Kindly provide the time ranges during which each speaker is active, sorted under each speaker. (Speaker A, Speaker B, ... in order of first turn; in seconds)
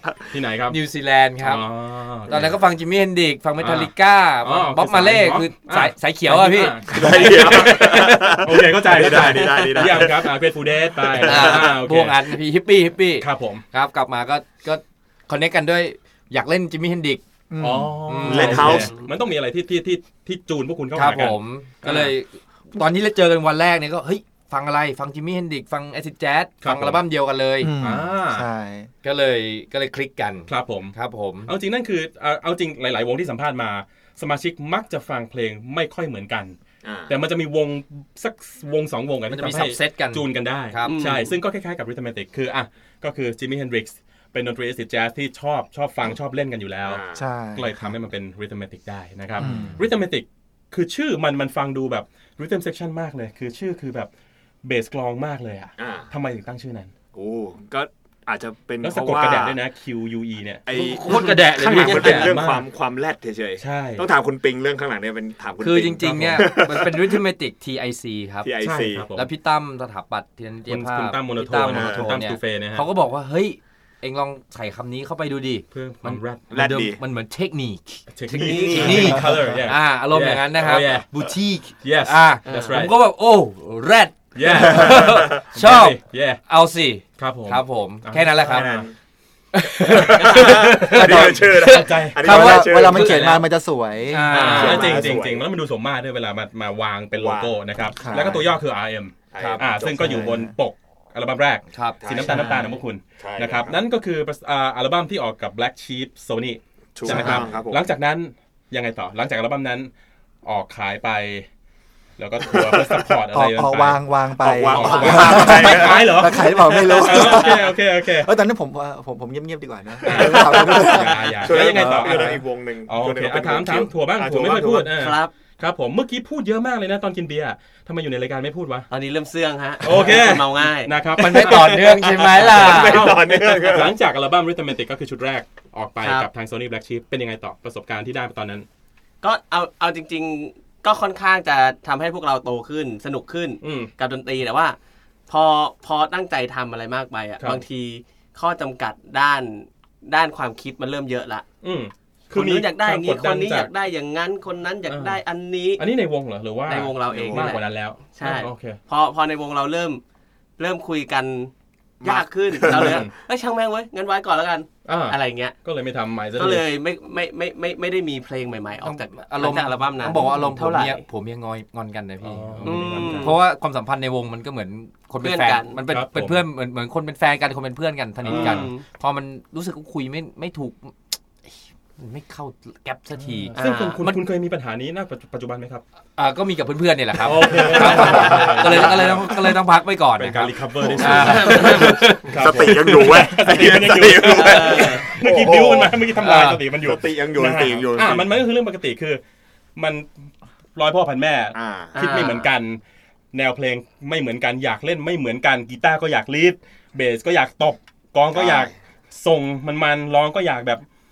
Speaker A: 0.3-0.8, 1.4-2.6, 3.6-3.9, 4.4-12.4, 13.2-13.6, 17.6-22.1, 26.6-27.0, 27.8-28.5, 30.5-36.6, 37.1-47.0, 47.5-54.1, 54.6-56.9, 58.8-60.6, 61.8-62.7, 63.6-64.1, 66.0-66.5, 68.6-69.3, 70.7-72.9, 75.7-76.5, 78.1-81.1, 81.8-82.9, 84.3-86.4, 87.2-88.9, 89.9-93.4, 94.3-109.9, 110.4-111.5, 112.2-114.0, 114.5-118.3, 120.0-128.9, 129.8-138.7, 143.6-143.9, 151.6-153.7, 154.9-155.2, 155.8-158.8, 162.7-163.1, 164.9-166.7, 170.2-170.5, 172.2-173.4, 175.9-176.4, 178.2-178.7, 183.2-185.8, 187.2-189.6, 190.2-199.2, 199.8-202.8, 203.3-210.8
Speaker B: 0.7-1.7, 2.3-8.4, 11.2-17.2, 18.0-18.8, 20.9-27.7, 29.0-31.5, 39.3-41.0, 49.4-49.8, 60.7-62.4, 65.6-68.5, 69.2-78.0, 78.7-88.7, 89.5-93.4, 94.1-95.2, 99.4-99.7, 101.7-102.7, 131.2-133.2, 168.8-184.2, 186.2-193.3, 196.2-196.6
Speaker C: 6.9-11.7, 18.2-19.0, 36.8-37.2, 46.8-47.3, 55.8-56.1, 57.1-59.6, 60.6-67.2, 68.4-69.1, 71.6-72.3, 76.5-77.0, 78.3-79.3, 84.7-85.4, 88.4-88.9, 89.9-93.4, 94.4-95.5, 97.1-97.6, 98.1-98.4, 99.3-100.4, 102.0-103.8, 107.0-107.9, 114.4-116.3, 117.0-117.4, 120.0-125.0, 132.2-134.0, 157.1-157.6, 162.0-163.1, 187.6-189.1, 190.8-196.1, 196.8-198.4, 201.6-202.3, 208.3-208.7
Speaker D: 17.5-18.2, 27.6-28.9, 47.1-47.9, 49.4-49.8, 79.2-79.5, 92.2-94.8, 97.9-98.5, 100.0-100.5, 107.1-107.5, 113.3-122.4
Speaker E: 18.6-19.1, 40.9-41.4, 78.4-79.0, 82.5-82.8, 94.3-94.8, 114.7-115.3, 125.0-125.3, 128.9-131.6, 136.0-136.3, 139.2-144.8, 145.3-151.5, 152.3-155.8, 156.7-160.0, 160.6-165.6, 166.4-171.1, 172.6-173.4, 175.2-175.8, 178.3-178.8, 183.6-184.0, 191.1-192.0, 194.2-195.1, 201.9-202.5